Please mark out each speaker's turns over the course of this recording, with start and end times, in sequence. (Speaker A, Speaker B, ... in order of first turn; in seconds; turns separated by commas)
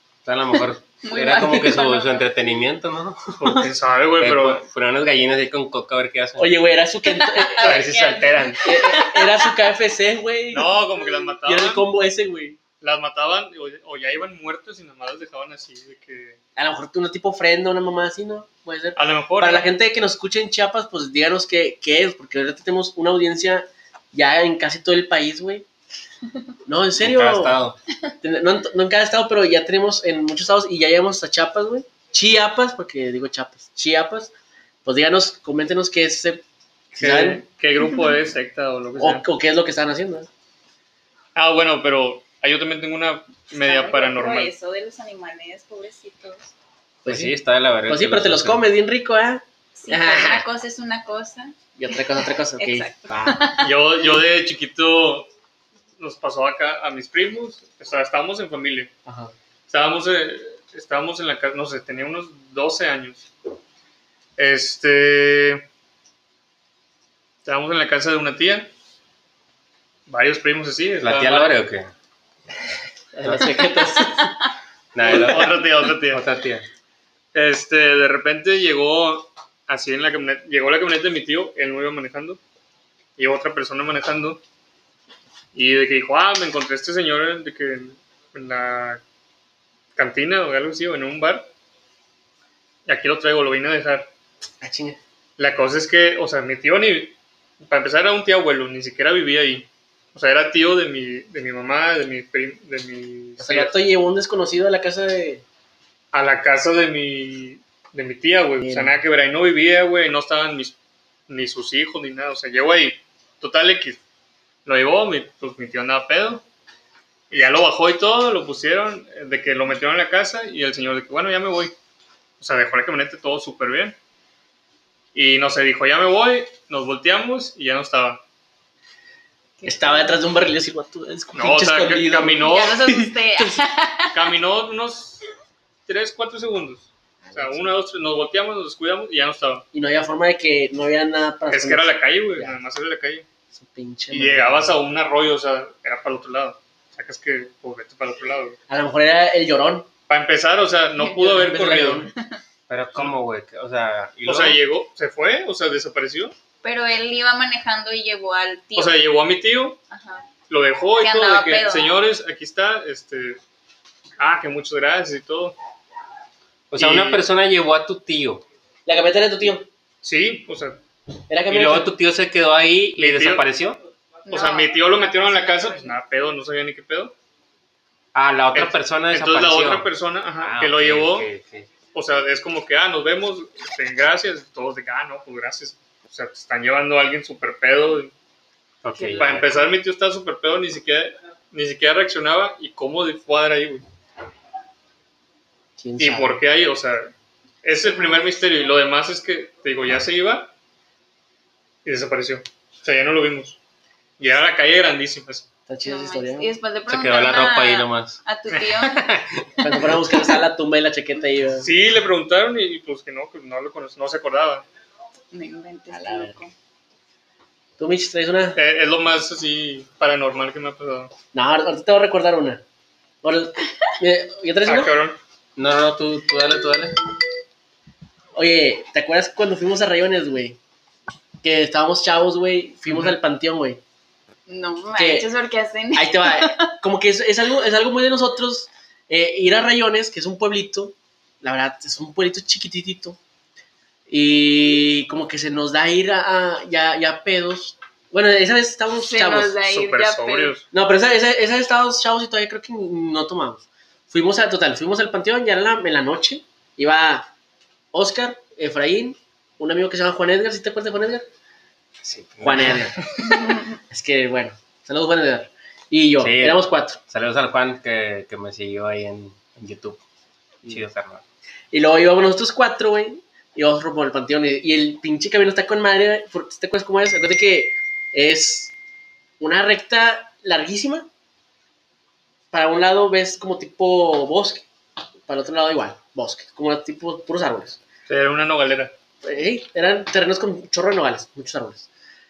Speaker A: 0.2-6.5, Speaker B: 1.0-2.2, Speaker C: 3.4-4.6, Speaker D: 6.4-7.8, Speaker B: 7.0-9.6, Speaker A: 7.6-8.7, Speaker D: 8.6-10.7, Speaker C: 10.5-11.8, Speaker D: 11.4-12.6, Speaker C: 12.8-16.4, Speaker D: 16.6-25.6, Speaker C: 18.9-19.7, Speaker D: 26.6-27.6, Speaker A: 27.0-27.8, Speaker D: 28.2-34.3, Speaker D: 34.8-36.4, Speaker C: 36.9-39.2, Speaker D: 37.0-37.4, Speaker B: 37.9-38.1, Speaker D: 39.0-40.3, Speaker C: 41.3-44.5, Speaker B: 43.5-46.5, Speaker D: 47.0-47.3, Speaker A: 47.0-48.6, Speaker D: 47.9-50.4, Speaker B: 49.8-51.5, Speaker D: 51.8-53.4, Speaker B: 52.6-53.7, Speaker C: 53.6-55.3, Speaker C: 56.0-58.9, Speaker D: 59.0-59.3, Speaker C: 59.7-63.2, Speaker C: 64.4-65.6, Speaker C: 67.4-68.7, Speaker C: 70.1-71.6, Speaker A: 71.0-71.9, Speaker D: 73.1-74.3, Speaker A: 73.2-73.6, Speaker A: 74.9-76.7, Speaker C: 75.0-76.2, Speaker C: 77.3-82.4, Speaker C: 83.2-84.4, Speaker C: 85.5-89.0, Speaker C: 90.0-91.5, Speaker C: 92.8-94.1, Speaker D: 94.6-95.0, Speaker C: 95.4-103.7, Speaker D: 103.4-105.4, Speaker C: 106.1-110.7, Speaker D: 108.6-109.0, Speaker C: 111.3-114.0, Speaker C: 114.6-116.4, Speaker C: 117.3-121.7, Speaker C: 122.4-124.0, Speaker C: 125.1-128.2, Speaker B: 129.6-130.2, Speaker D: 129.6-133.6, Speaker C: 131.3-132.8, Speaker B: 132.4-134.3, Speaker C: 134.1-135.2, Speaker C: 135.9-139.6, Speaker D: 137.2-137.7, Speaker D: 139.7-142.6, Speaker C: 141.5-143.2, Speaker D: 143.5-144.8, Speaker C: 144.1-148.6, Speaker D: 148.7-149.9, Speaker C: 150.1-152.1, Speaker B: 151.0-151.3, Speaker D: 151.2-152.1, Speaker B: 152.2-152.4, Speaker A: 152.7-154.6, Speaker C: 154.2-156.3, Speaker B: 156.6-158.9, Speaker C: 158.8-159.8, Speaker B: 159.9-160.2, Speaker C: 160.5-163.4, Speaker B: 161.0-161.9, Speaker C: 164.2-165.6, Speaker A: 166.7-168.4, Speaker C: 166.8-167.2, Speaker D: 168.8-169.7, Speaker C: 170.0-170.8, Speaker D: 171.3-171.9, Speaker A: 171.5-173.8, Speaker C: 173.0-173.4, Speaker B: 174.3-175.9, Speaker C: 174.3-177.1, Speaker A: 178.1-179.9, Speaker C: 178.5-181.3, Speaker A: 180.4-181.7, Speaker C: 181.9-188.1, Speaker A: 188.8-189.5, Speaker B: 189.0-189.4, Speaker C: 189.2-193.8, Speaker D: 195.8-196.4, Speaker C: 196.0-197.1, Speaker C: 197.6-200.5, Speaker B: 197.9-198.3, Speaker C: 201.8-203.6, Speaker C: 204.2-205.4, Speaker D: 205.7-206.5, Speaker B: 205.8-209.1, Speaker A: 206.9-209.9, Speaker D: 209.6-211.7, Speaker C: 211.6-214.6, Speaker B: 215.3-216.5, Speaker D: 215.9-216.4, Speaker D: 217.8-218.6, Speaker C: 218.6-221.1, Speaker D: 221.3-222.6, Speaker D: 223.2-224.9, Speaker C: 224.7-225.2, Speaker A: 225.6-227.0, Speaker D: 228.3-230.6, Speaker D: 231.4-233.8, Speaker C: 232.9-233.1, Speaker B: 234.5-236.7, Speaker D: 235.0-235.3, Speaker D: 235.9-243.2, Speaker D: 244.1-249.5, Speaker B: 249.0-250.5, Speaker C: 249.6-250.6, Speaker D: 250.7-257.3, Speaker D: 257.9-261.3, Speaker A: 262.0-262.9, Speaker D: 262.4-263.0, Speaker B: 263.4-263.6, Speaker D: 263.9-267.0, Speaker A: 266.2-270.0, Speaker A: 270.6-271.2, Speaker D: 271.7-278.7, Speaker D: 279.4-281.1, Speaker D: 282.5-284.6, Speaker D: 285.3-287.8, Speaker C: 288.1-288.9, Speaker D: 289.2-291.9